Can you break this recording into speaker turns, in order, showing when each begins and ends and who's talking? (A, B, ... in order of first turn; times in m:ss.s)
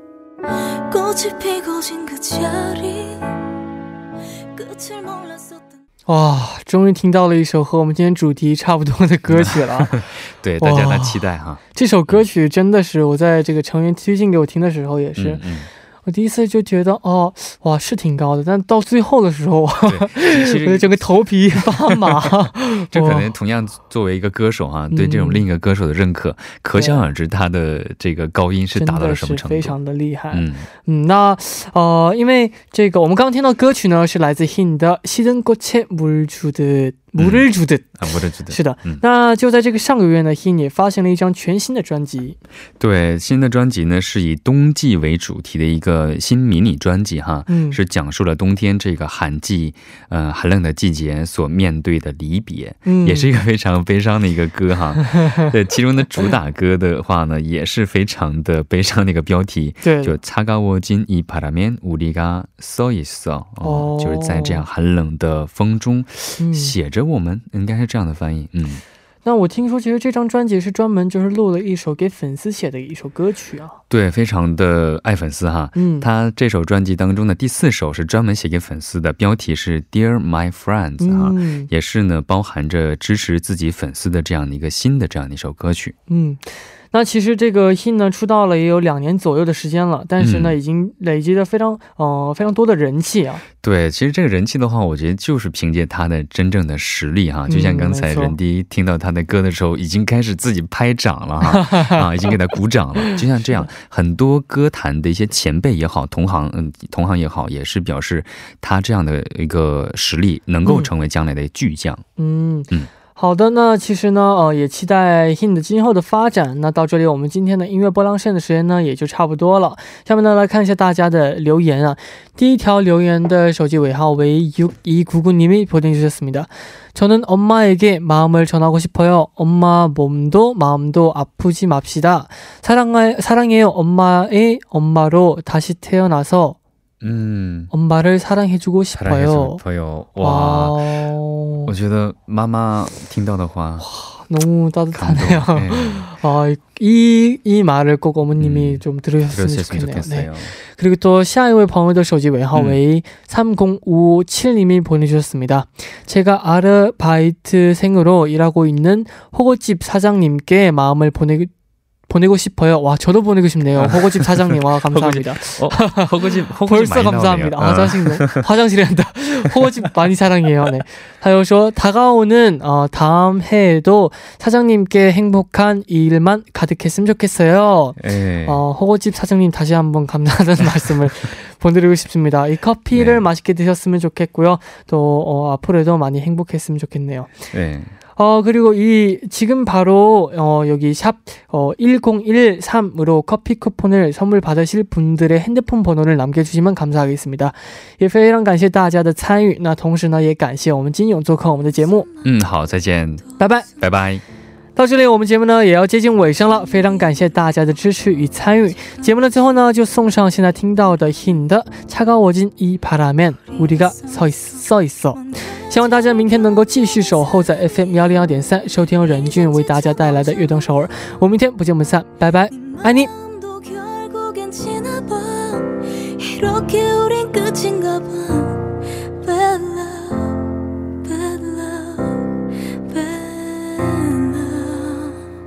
0:00.5-0:03.2 A
0:04.5-0:05.8 A
0:06.1-0:10.0 B
0:09.3-0:12.2 C
0:10.6-0:11.2 B
0:11.7-0:15.4 B
0:15.2-0:15.7 C
0:16.0-0:23.3 B
0:19.8-0:22.3 C
0:22.9-0:29.8 C
0:24.9-0:25.4 B
0:26.7-0:27.0 B
0:28.7-0:37.9 B
0:30.3-0:30.7 C
0:37.2-0:39.0 C
0:38.5-0:42.4 B
0:42.8-1:08.8 C
0:47.5-0:47.8 B
0:52.8-0:53.3 B
0:59.8-1:00.2 B
1:03.6-1:04.6 B
1:06.4-1:06.7 B
1:09.2-1:13.8 B
1:13.9-1:26.0 C
1:15.8-1:16.1 B
1:21.0-1:21.7 B
1:26.1-1:33.4 B
1:30.2-1:30.6 C
1:33.6-1:52.0 C
1:37.5-1:38.3 B
1:41.5-1:42.0 B
1:50.6-1:50.9 B
1:52.2-2:16.6 B
2:17.0-2:17.7 C
2:17.7-2:19.6 B
2:18.9-2:20.8 C
2:20.2-2:21.7 B
2:21.7-2:23.8 C
2:23.8-2:41.5 B
2:24.9-2:26.1 C
2:28.4-2:30.5 C
2:32.5-2:32.8 C
2:42.1-2:46.1 B
2:43.8-2:48.4 C
2:46.6-3:07.3 B
2:58.0-2:58.6 C
3:02.9-3:03.2 C
3:07.5-3:07.9 C
3:08.2-3:22.1 B
3:22.0-3:22.3 A
3:22.2-3:23.2 C
3:23.4-3:23.7 B
3:23.8-3:24.2 C
3:24.8-3:43.1 B
3:26.6-3:27.1 A
3:28.8-3:29.1 A
3:33.5-3:34.6 A
3:35.1-3:38.1 A
3:39.0-3:41.1 A
3:42.5-3:50.5 A
3:51.0-3:55.2 A